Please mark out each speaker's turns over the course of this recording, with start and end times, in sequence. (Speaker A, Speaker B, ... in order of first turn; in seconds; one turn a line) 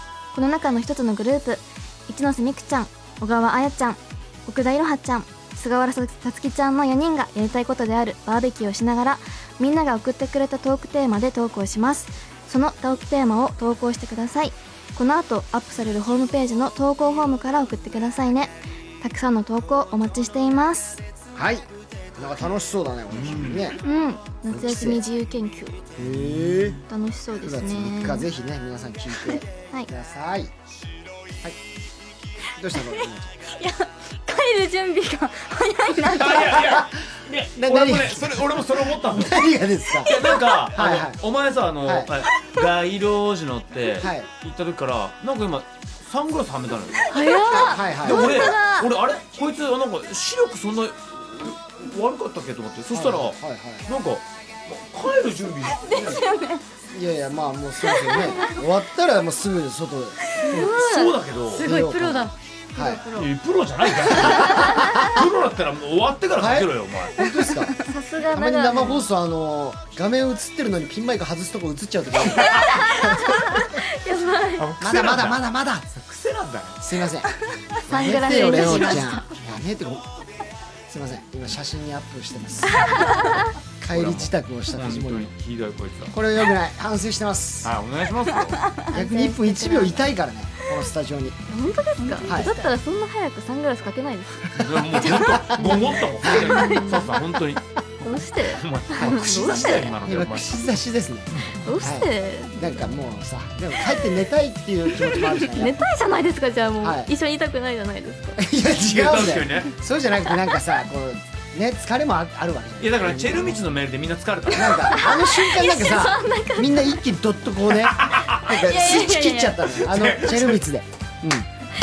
Speaker A: 0.3-21.0
Speaker B: 21.3-23.8
Speaker C: 23.1-23.7
Speaker A: 23.8-25.9
Speaker B: 24.5-25.0
Speaker B: 26.0-26.8
Speaker C: 26.0-26.8
Speaker A: 26.9-28.3
Speaker B: 27.4-30.5
Speaker B: 32.5-33.3
Speaker D: 33.0-36.6
Speaker C: 36.1-56.1
Speaker B: 36.5-37.0
Speaker B: 37.5-41.2
Speaker B: 41.8-42.2
Speaker B: 44.0-44.3
Speaker A: 47.1-48.9
Speaker D: 47.1-47.6
Speaker B: 47.5-48.5
Speaker B: 52.9-53.9
Speaker B: 55.9-56.2
Speaker D: 55.9-56.6
Speaker B: 56.9-60.3
Speaker D: 57.9-58.5
Speaker D: 60.4-60.7
Speaker C: 60.4-61.7
Speaker A: 60.5-63.3
Speaker B: 61.6-63.1
Speaker C: 63.1-67.2
Speaker B: 64.2-65.1
Speaker B: 66.4-67.8
Speaker D: 67.8-68.2
Speaker A: 67.8-69.0
Speaker B: 68.3-73.6
Speaker C: 72.3-72.8
Speaker D: 73.0-74.5
Speaker A: 74.0-74.7
Speaker C: 74.5-75.4
Speaker B: 74.8-75.9
Speaker C: 75.9-76.8
Speaker B: 76.8-77.3
Speaker B: 77.8-80.1
Speaker D: 77.9-79.4
Speaker A: 78.0-79.2
Speaker B: 80.9-83.2
Speaker B: 83.8-85.3
Speaker C: 83.9-86.1
Speaker B: 86.1-87.7
Speaker C: 87.6-88.7
Speaker A: 88.9-90.1
Speaker B: 88.9-91.4
Speaker A: 91.5-97.3
Speaker D: 92.0-92.7
Speaker B: 92.2-92.6
Speaker C: 94.6-100.6
Speaker B: 95.3-95.8
Speaker A: 98.0-100.0
Speaker B: 99.0-99.3
Speaker B: 100.0-105.8
Speaker C: 101.3-101.6
Speaker A: 101.6-102.8
Speaker A: 105.5-108.4
Speaker B: 106.8-107.1
Speaker B: 108.4-113.7
Speaker C: 108.7-109.8
Speaker C: 112.8-115.0
Speaker B: 114.5-121.5
Speaker A: 115.0-117.0
Speaker C: 117.9-118.6
Speaker D: 118.7-119.6
Speaker C: 119.7-120.6